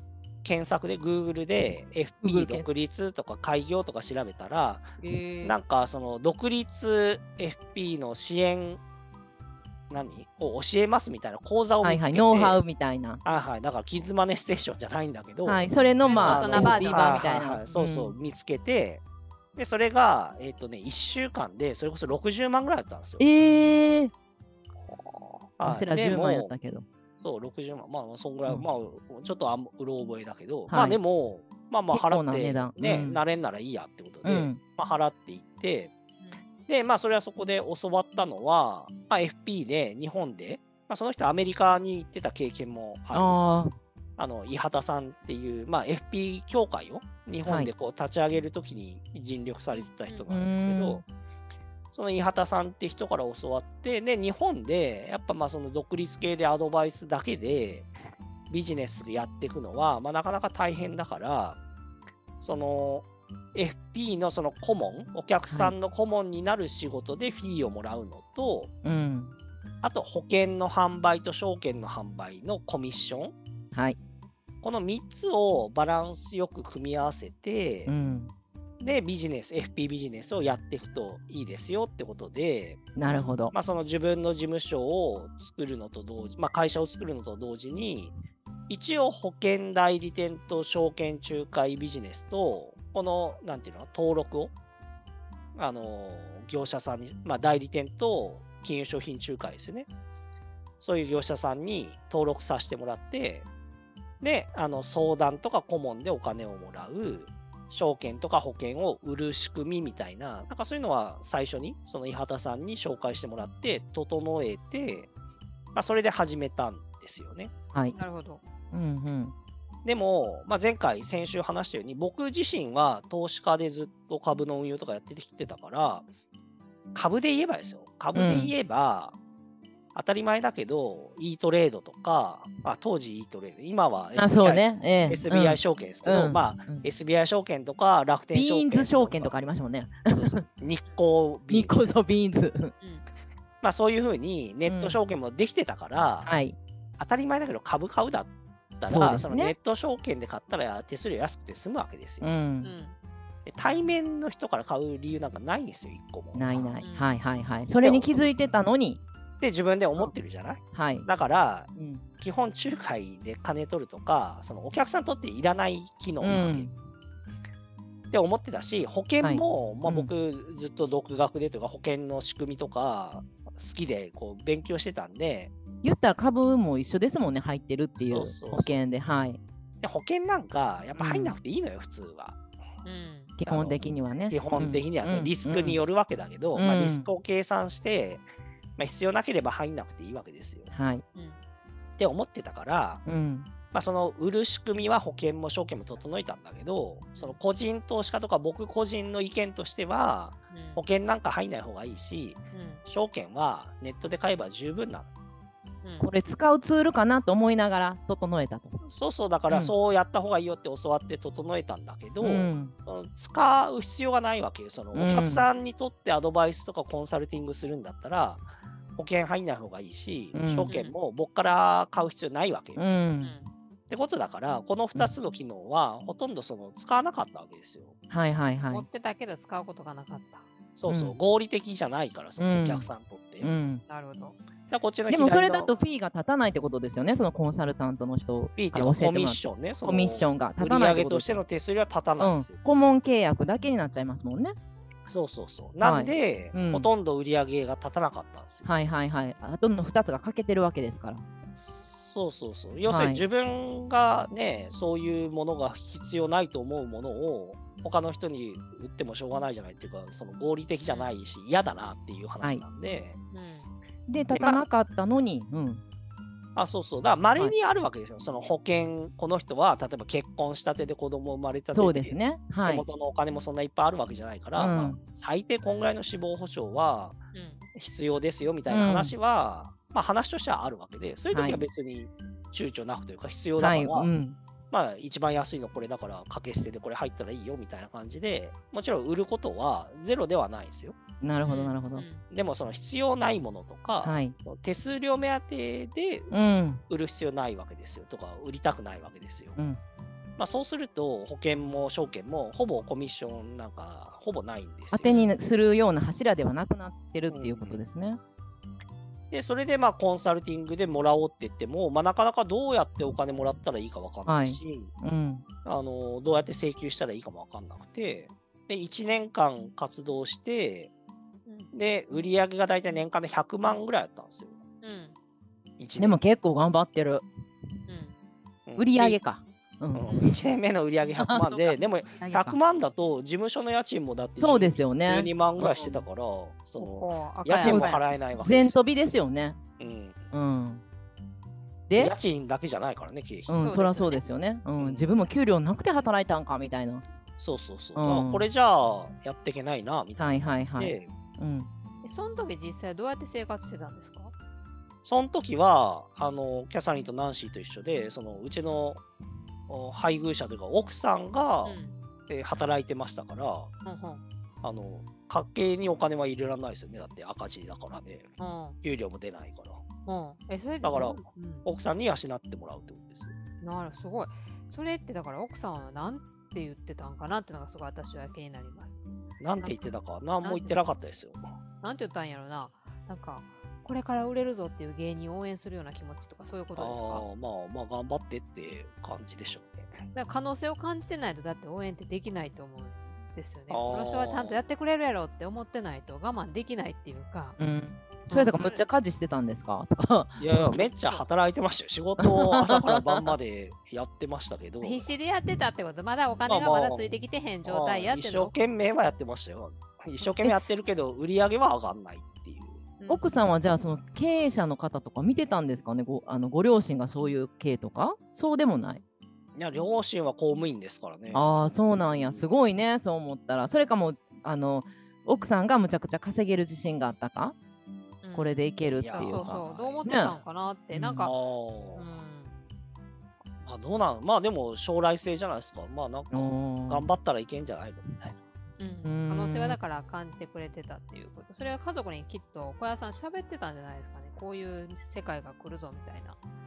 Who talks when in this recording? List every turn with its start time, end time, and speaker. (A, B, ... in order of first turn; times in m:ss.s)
0:00.4-0:04.9 A
0:02.2-0:02.7 B
0:05.0-0:05.6 C
0:05.4-0:08.8 A
0:09.9-0:12.6 A
0:11.8-0:13.2 B
0:13.2-0:15.7 A
0:15.5-0:18.1 B
0:16.0-0:17.3 C
0:16.2-0:19.0 A
0:19.6-0:23.3 A
0:23.2-0:24.1 B
0:24.8-0:26.5 A
0:25.6-0:26.9 B
0:27.2-0:35.9 A
0:30.7-0:31.0 B
0:31.9-0:33.2 B
0:34.2-0:34.6 B
0:36.7-0:43.4 A
0:43.1-0:43.7 B
0:44.2-0:51.0 A
0:47.4-0:47.7 B
0:49.7-0:50.2 C
0:50.3-0:51.0 B
0:51.9-0:57.9 A
0:58.5-1:01.6 A
1:02.4-1:08.7 A
1:05.5-1:05.8 B
1:08.8-1:09.4 B
1:09.8-1:13.4 A
1:13.7-1:14.0 B
1:14.6-1:17.9 A
1:17.9-1:18.3 B
1:18.8-1:22.8 A
1:23.0-1:23.5 B
1:23.1-1:23.4 C
1:23.5-1:28.1 A
1:28.7-1:34.5 A
1:35.6-1:39.9 A
1:40.8-1:43.5 A
1:44.2-1:55.1 A
1:55.7-1:57.5 A
1:57.9-1:58.4 C
1:58.7-1:59.3 B
1:59.8-2:06.1 A
2:07.0-2:09.2 A
2:08.1-2:08.5 B
2:09.9-2:19.4 A
2:14.2-2:16.9 B
2:18.3-2:20.4 B
2:20.1-2:22.0 A
2:21.5-2:22.7 B
2:23.6-2:26.3 A
2:24.6-2:25.0 B
2:26.2-2:26.6 B
2:27.0-2:32.3 A
2:28.9-2:29.5 B
2:32.2-2:32.7 B
2:32.6-2:33.0 C
2:33.5-2:36.8 A
2:36.3-2:39.0 B
2:36.8-2:37.1 C
2:37.8-2:38.3 A
2:39.4-2:46.7 A
2:40.7-2:41.1 B
2:41.8-2:42.0 B
2:46.2-2:46.7 B
2:48.1-2:55.5 A
2:49.2-2:50.1 B
2:55.8-2:59.4 B
2:58.0-2:58.8 A
2:59.8-3:02.4 A
3:01.0-3:01.4 B
3:02.8-3:03.3 C
3:03.4-3:05.8 B
3:03.5-3:03.8 A
3:04.3-3:08.2 A
3:06.6-3:07.1 B
3:08.8-3:10.7 A
3:10.7-3:11.0 B
3:11.2-3:11.4 C
3:12.0-3:13.0 A
3:13.0-3:13.5 B
3:13.7-3:25.1 A
3:20.5-3:20.8 C
3:22.5-3:22.8 C
3:25.8-3:26.1 C
3:26.0-3:28.8 B
3:28.8-3:42.8 A
3:29.5-3:29.7 B
3:32.2-3:32.7 B
3:34.9-3:35.4 B
3:40.3-3:40.7 B
3:40.7-3:41.0 C
3:42.8-3:43.4 B
3:43.2-3:43.5 C
3:43.9-3:48.0 A
3:48.1-3:48.9 B
3:48.7-3:50.5 C
3:50.8-3:53.5 A
3:50.9-3:51.1 B
3:52.4-3:52.9 B
3:53.4-3:53.8 B
3:53.9-3:54.4 C
3:54.7-3:55.7 A
3:55.1-4:01.4 B
3:58.6-4:02.6 A
4:02.2-4:04.6 B
4:05.1-4:08.7 A
4:05.8-4:06.9 B
4:08.6-4:11.2 B
4:11.6-4:23.2 A
4:12.9-4:13.2 B
4:20.9-4:21.1 C
4:23.3-4:23.7 C
4:24.1-4:25.8 B
4:24.3-4:24.7 A
4:26.6-4:37.2 A
4:31.7-4:32.9 B
4:34.6-4:35.0 B
4:37.3-4:37.6 C
4:37.8-4:44.1 A
4:38.7-4:39.1 B
4:41.3-4:41.6 B
4:43.6-4:44.4 B
4:44.7-4:51.0 A
4:51.2-4:52.1 B
4:51.4-4:52.2 C
4:52.3-4:56.3 A
4:54.0-4:54.4 B
4:56.3-4:56.8 B
4:56.9-4:59.6 A
5:00.4-5:05.2 A
5:04.9-5:08.2 B
5:05.0-5:05.4 C
5:07.3-5:07.8 A
5:09.3-5:14.9 A
5:14.3-5:15.4 B
5:15.6-5:20.9 A
5:21.5-5:21.7 C
5:21.7-5:24.6 A
5:24.8-5:25.2 C
5:25.8-5:26.2 A
5:26.0-5:27.2 B
5:27.9-5:28.2 C
5:28.7-5:29.2 A
5:28.8-5:30.4 B
5:29.9-5:38.8 A
5:30.1-5:30.3 C
5:31.2-5:32.6 B
5:34.4-5:36.0 B
5:36.8-5:38.5 C
5:37.6-5:39.6 B
5:39.8-5:40.3 A
5:40.3-5:40.8 B
5:41.9-5:42.1 B
5:42.0-5:43.7 A
5:43.5-5:47.0 B
5:43.6-5:44.2 C
5:44.8-5:45.1 A
5:47.4-5:51.1 A
5:48.0-5:48.5 B
5:50.2-5:51.7 B
5:52.0-5:54.3 C
5:55.0-5:59.0 A
5:59.7-6:03.7 A
6:01.6-6:02.0 C
6:03.8-6:04.2 C
6:04.6-6:08.3 A
6:08.4-6:08.8 C
6:08.8-6:09.8 A
6:10.1-6:11.7 C
6:10.8-6:13.3 A
6:13.6-6:19.0 C
6:19.4-6:21.5 A
6:19.6-6:20.8 C
6:21.8-6:27.2 C
6:26.8-6:30.0 A
6:30.1-6:37.6 C
6:33.7-6:34.6 A
6:37.6-6:40.9 B
6:38.3-6:38.8 C
6:40.4-6:45.1 A
6:42.2-6:43.3 B
6:44.8-6:48.5 C
6:46.5-6:52.8 A
6:53.0-6:53.4 C
6:53.1-6:59.0 B
6:59.6-7:02.5 A
7:01.3-7:07.6 B
7:08.2-7:11.3 C
7:08.3-7:10.4 B
7:08.9-7:10.2 A
7:10.9-7:11.3 B
7:11.2-7:12.0 A
7:12.0-7:12.6 C
7:13.6-7:18.4 A
7:16.3-7:17.1 B
7:18.8-7:26.4 C
7:19.0-7:19.8 B